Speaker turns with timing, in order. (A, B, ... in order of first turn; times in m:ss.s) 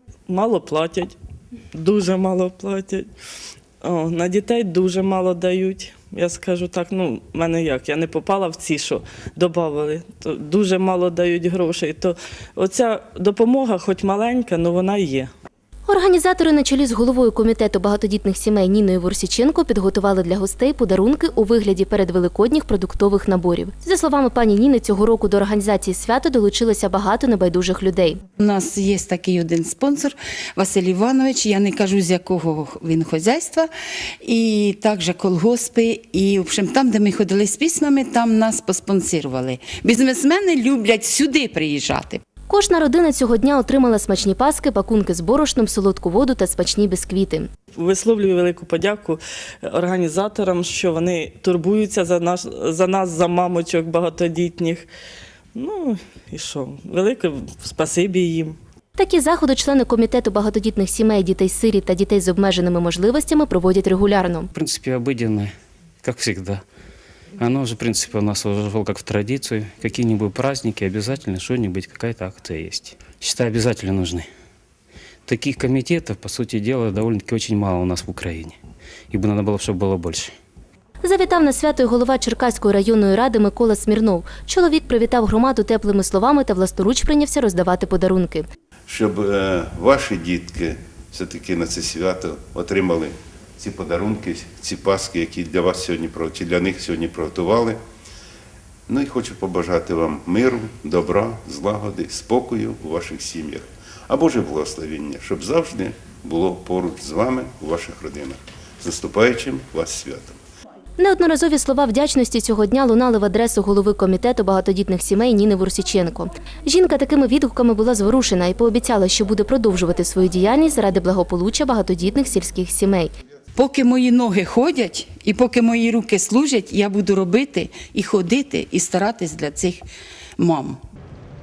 0:00.3-0:01.2 A
0:01.7-0:03.1 A
0:03.8-0:15.3 A
0:15.9-0:28.2 B
0:28.4-0:33.7 C
0:34.2-0:42.2 C
0:42.5-0:47.5 B
0:47.8-0:54.9 A
0:55.6-0:58.6 A
0:59.0-1:04.5 B
1:04.5-1:05.5 D
1:06.0-1:06.6 D
1:07.4-1:14.3 D
1:15.3-1:18.6 D
1:19.1-1:20.3 D
1:21.0-1:28.5 B
1:28.9-1:37.8 E
1:38.9-1:50.4 E
1:51.0-2:03.1 B
2:03.6-2:09.9 C
2:10.4-2:10.8 C